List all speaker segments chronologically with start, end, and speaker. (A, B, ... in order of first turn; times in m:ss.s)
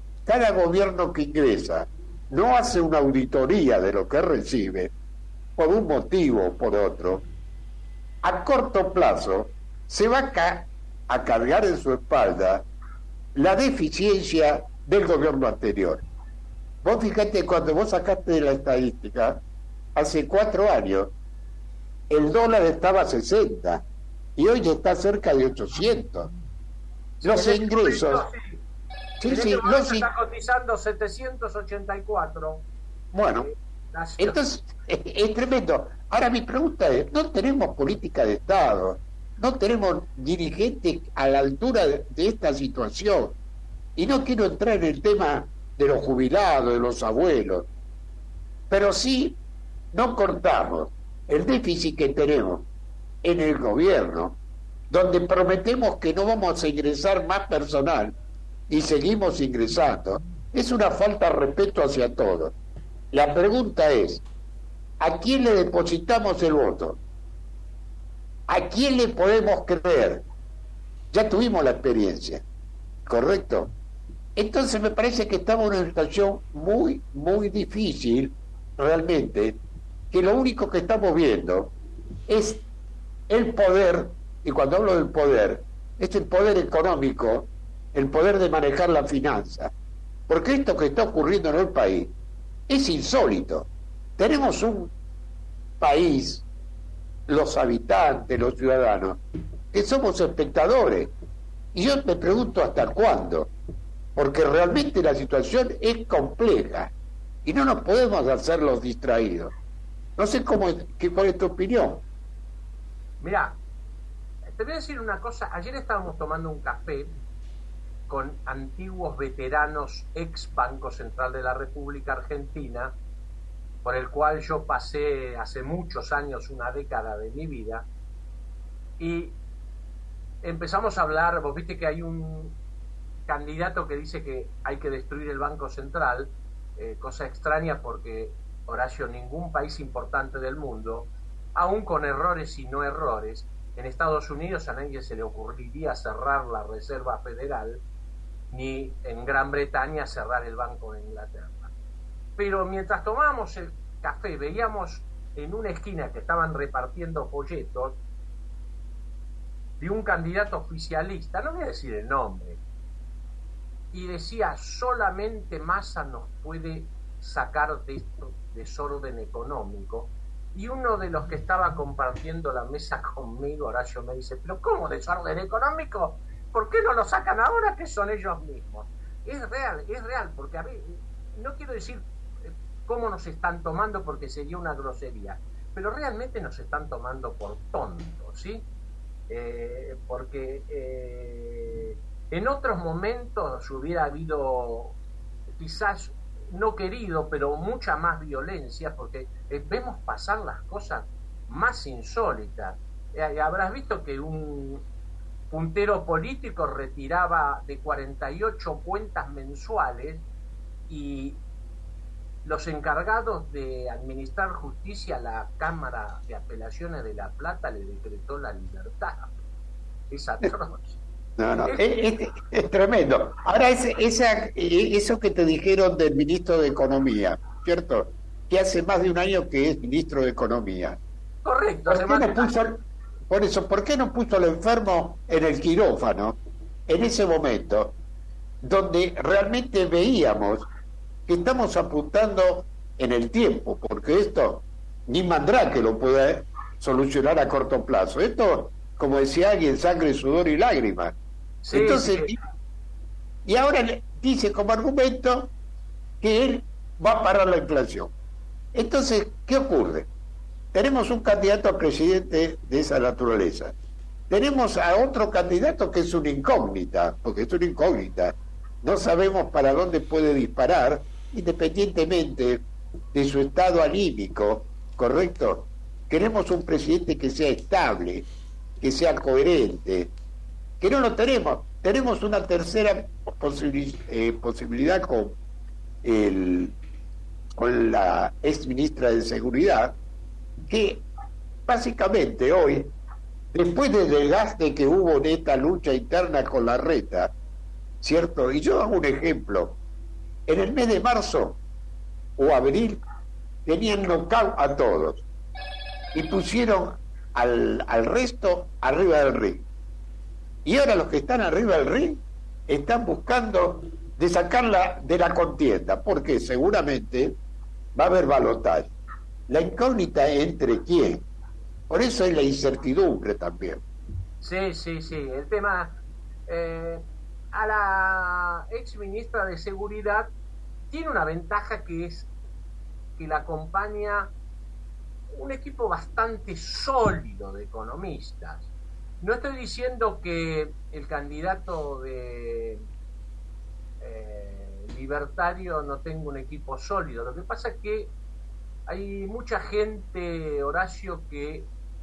0:00.3-0:04.9 A
0:05.6-0:07.2 A
0:08.2-0:12.7 A
0:13.4-0:16.0 A
0:16.8-0:19.4 A
0:20.0-0:21.1 A
0:22.1-0:23.8 A
0:24.4-0:26.3 A
0:27.2-0:28.6 B
0:27.2-0:28.3 A
0:29.2-0:30.1 A
0:29.2-0:32.6 B
0:33.1-0:33.5 A
0:33.4-0:34.4 B
0:34.2-0:43.4 A
0:44.0-0:47.7 A
0:48.7-0:49.4 A
0:49.9-0:52.7 A
0:53.2-0:54.4 A
0:54.9-0:58.2 A
0:58.7-1:02.6 A
1:03.1-1:04.2 A
1:05.0-1:07.0 A
1:08.5-1:10.2 A
1:11.1-1:12.4 A
1:13.1-1:13.7 A
1:14.4-1:19.6 A
1:20.1-1:21.7 A
1:22.3-1:22.6 A
1:23.3-1:29.7 A
1:30.3-1:32.1 A
1:32.7-1:34.9 A
1:35.8-1:36.4 A
1:37.3-1:39.2 A
1:39.7-1:41.1 A
1:41.7-1:43.5 A
1:44.2-1:46.9 A
1:47.4-1:49.5 A
1:50.2-1:52.0 A
1:53.2-1:53.6 B
1:54.5-1:57.1 B
1:58.1-2:02.9 B
2:03.8-2:07.9 B
2:09.0-2:09.4 B
2:10.4-2:12.6 B
2:13.3-2:27.8 B
2:28.5-2:31.7 B
2:32.4-2:38.0 B
2:39.8-2:42.6 B
2:43.9-3:08.7 B
3:09.3-3:15.0 B
3:15.6-3:24.8 B
3:25.5-3:30.2 B
3:30.9-3:31.4 B
3:32.4-3:39.3 B
3:40.1-3:41.0 B
3:41.4-3:51.0 A
3:51.4-3:52.6 B
3:51.9-3:58.0 A
3:58.6-4:00.7 A
4:01.3-4:11.2 A
4:11.6-4:12.4 B
4:11.7-4:12.4 A
4:13.4-4:15.5 A
4:16.2-4:18.1 A
4:18.7-4:20.1 A
4:20.7-4:23.7 A
4:24.3-4:38.3 A
4:38.8-4:40.1 A
4:40.8-4:45.4 A
4:46.0-4:46.8 A
4:47.6-4:50.0 A
4:50.7-4:51.0 A
4:51.7-4:52.9 A
4:53.5-4:57.3 A
4:58.0-4:59.8 A
5:00.5-5:01.6 A
5:02.4-5:03.0 A
5:03.7-5:05.2 A
5:06.1-5:09.6 A
5:10.6-5:17.4 A
5:18.0-5:18.9 A
5:19.5-5:21.2 A
5:21.9-5:23.8 A
5:24.4-5:30.3 B
5:30.9-5:32.3 B
5:33.2-5:34.3 B
5:35.3-5:38.7 B
5:39.2-5:42.8 B
5:44.0-5:48.1 B
5:48.9-5:51.7 B